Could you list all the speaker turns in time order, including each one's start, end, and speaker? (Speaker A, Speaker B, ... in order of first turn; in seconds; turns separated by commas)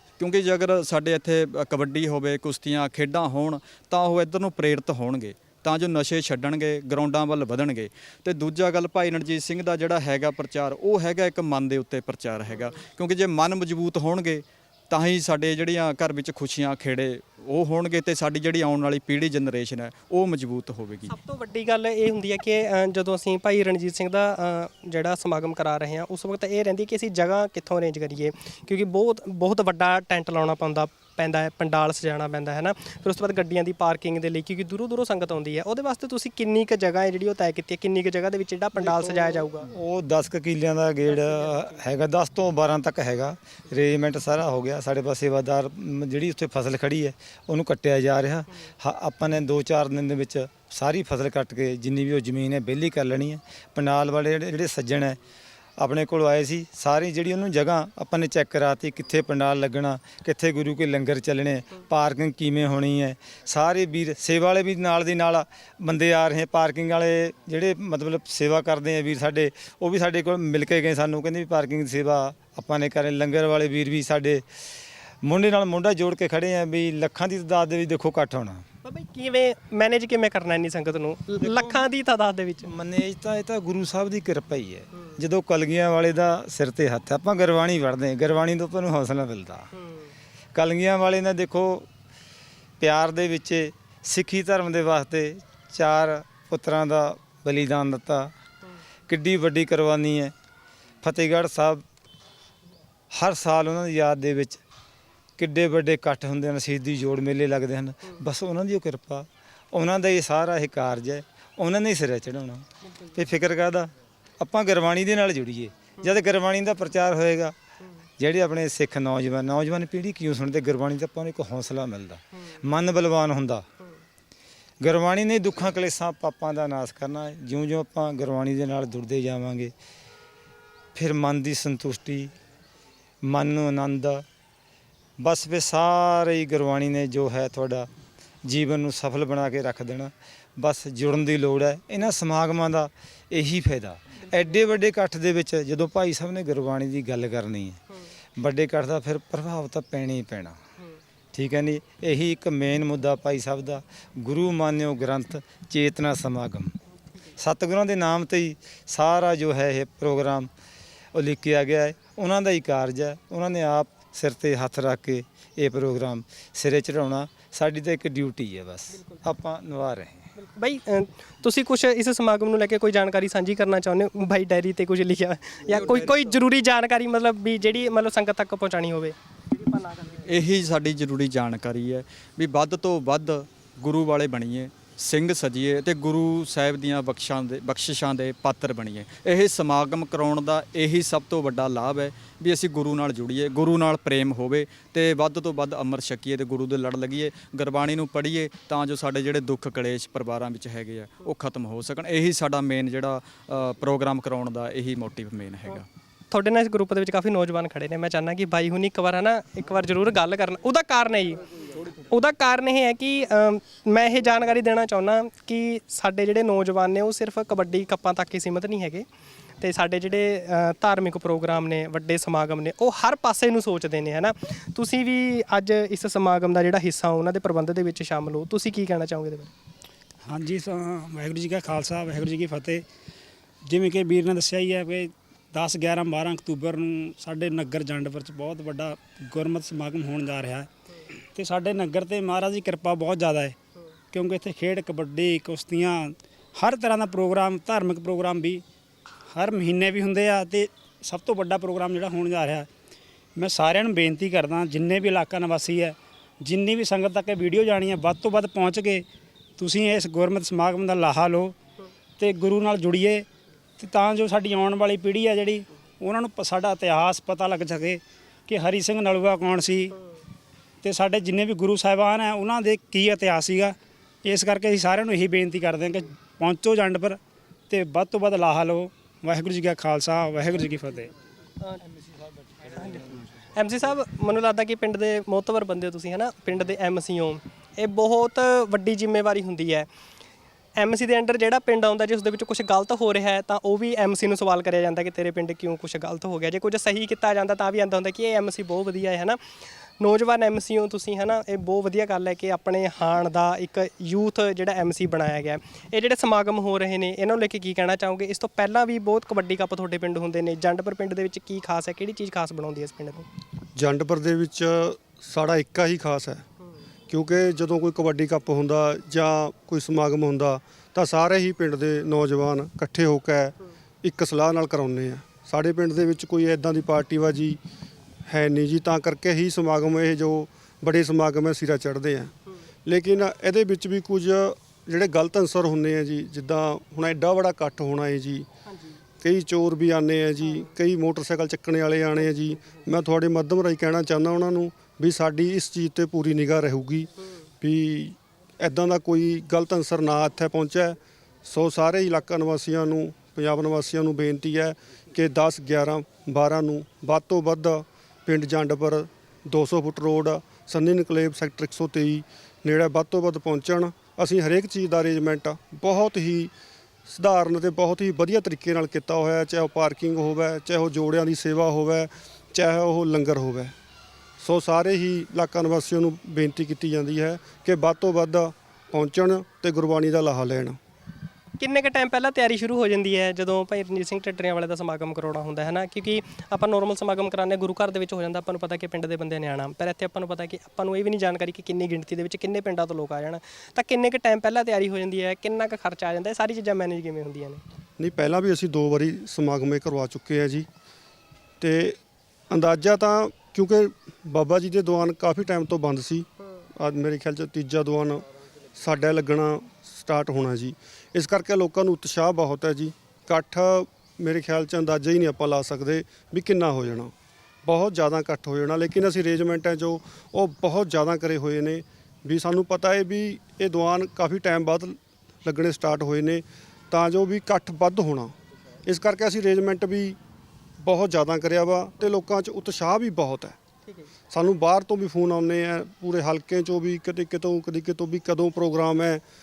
Speaker A: 0.2-21.1, Speaker B: 21.1-39.7, Speaker C: 38.8-55.2, Speaker C: 55.8-74.4, Speaker C: 75.2-78.6, Speaker B: 78.8-82.7, Speaker C: 81.4-81.8, Speaker C: 82.6-89.7, Speaker C: 90.5-91.9, Speaker C: 92.8-98.3, Speaker C: 99.1-100.3, Speaker C: 101.0-101.8, Speaker C: 103.1-104.6, Speaker C: 105.4-117.5, Speaker C: 118.2-123.7, Speaker C: 124.8-129.7, Speaker C: 130.9-132.3, Speaker C: 133.2-134.2, Speaker C: 135.2-137.9, Speaker C: 138.4-147.8, Speaker C: 148.4-150.6, Speaker C: 151.3-156.7, Speaker C: 157.4-160.5, Speaker C: 161.1-170.3, Speaker B: 170.4-180.1, Speaker A: 180.1-205.9, Speaker B: 206.3-219.1, Speaker B: 219.6-229.5, Speaker D: 230.2-232.8, Speaker D: 233.6-240.7, Speaker D: 241.3-243.6, Speaker D: 244.1-248.6, Speaker D: 249.3-252.7, Speaker D: 253.4-259.1, Speaker D: 259.6-261.6, Speaker D: 262.2-263.3, Speaker D: 263.8-269.9, Speaker D: 270.8-277.2, Speaker D: 277.7-281.1, Speaker B: 282.6-289.9, Speaker B: 290.8-299.4, Speaker B: 300.0-313.3, Speaker E: 313.8-316.4, Speaker E: 317.1-327.6, Speaker E: 328.3-332.3, Speaker E: 332.9-338.5, Speaker B: 338.7-339.0, Speaker E: 339.2-347.1, Speaker B: 340.4-340.7, Speaker B: 342.2-342.8, Speaker E: 347.6-366.5, Speaker E: 367.1-373.7, Speaker E: 374.4-380.8, Speaker B: 381.6-397.6, Speaker E: 398.0-400.7, Speaker E: 401.6-402.0, Speaker E: 402.5-417.1, Speaker E: 417.6-428.4, Speaker E: 428.9-430.2, Speaker E: 430.8-433.6, Speaker E: 434.3-439.2